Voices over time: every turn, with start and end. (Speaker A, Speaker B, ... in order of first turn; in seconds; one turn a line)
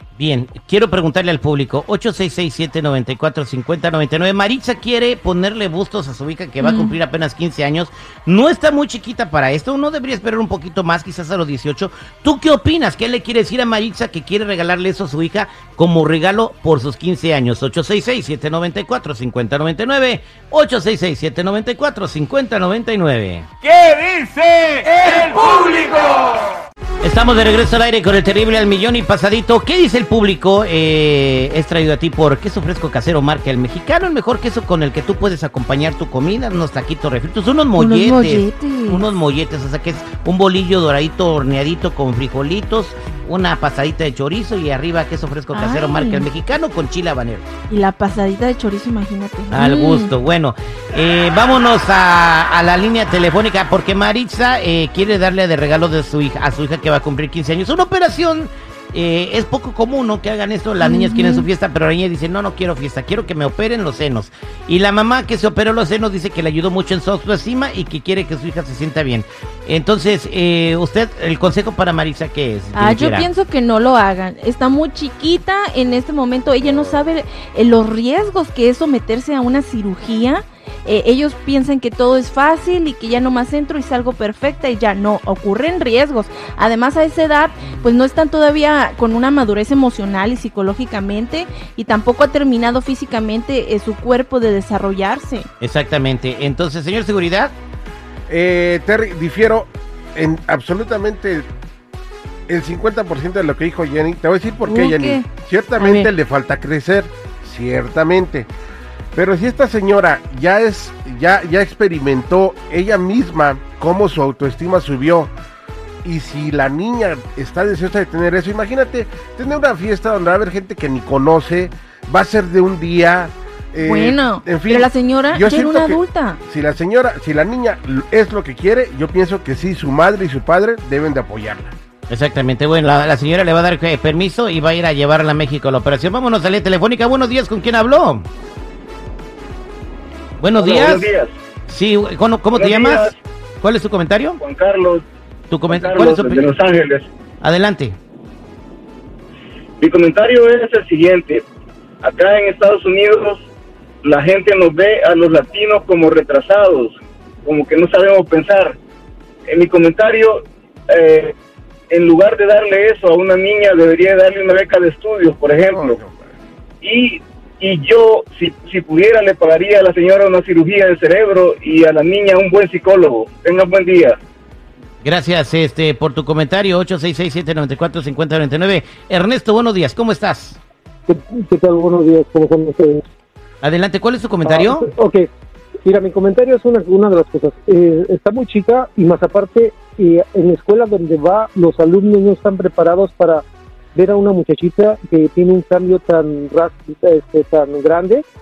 Speaker A: 0.2-23.5
Speaker B: 6.6-7.0
Speaker C: 23.7-26.1
Speaker A: 27.0-47.5
Speaker B: 37.8-39.0
Speaker B: 45.5-46.2
Speaker B: 47.7-50.1
Speaker A: 49.5-73.3
Speaker B: 60.8-61.5
Speaker B: 72.8-95.5
Speaker A: 95.6-97.5
Speaker D: 98.3-101.5
Speaker D: 102.5-108.5
Speaker B: 104.7-105.2
Speaker B: 105.8-106.1
Speaker D: 109.2-115.3
Speaker D: 116.0-131.7
Speaker B: 123.8-126.4
Speaker A: 132.1-138.3
Speaker A: 140.4-141.1
Speaker E: 140.6-141.3
Speaker A: 141.7-144.4
Speaker E: 142.6-143.2
Speaker E: 144.4-145.0
Speaker A: 145.5-146.5
Speaker E: 145.7-147.1
Speaker A: 147.4-148.0
Speaker E: 149.8-151.4
Speaker E: 152.0-153.4
Speaker E: 154.0-158.8
Speaker E: 159.5-161.3
Speaker E: 161.9-166.0
Speaker D: 165.7-166.2
Speaker E: 166.8-174.2
Speaker A: 175.0-180.6
Speaker F: 181.1-183.0
Speaker A: 183.6-184.9
Speaker F: 184.4-185.3
Speaker F: 185.8-193.4
Speaker F: 193.9-198.2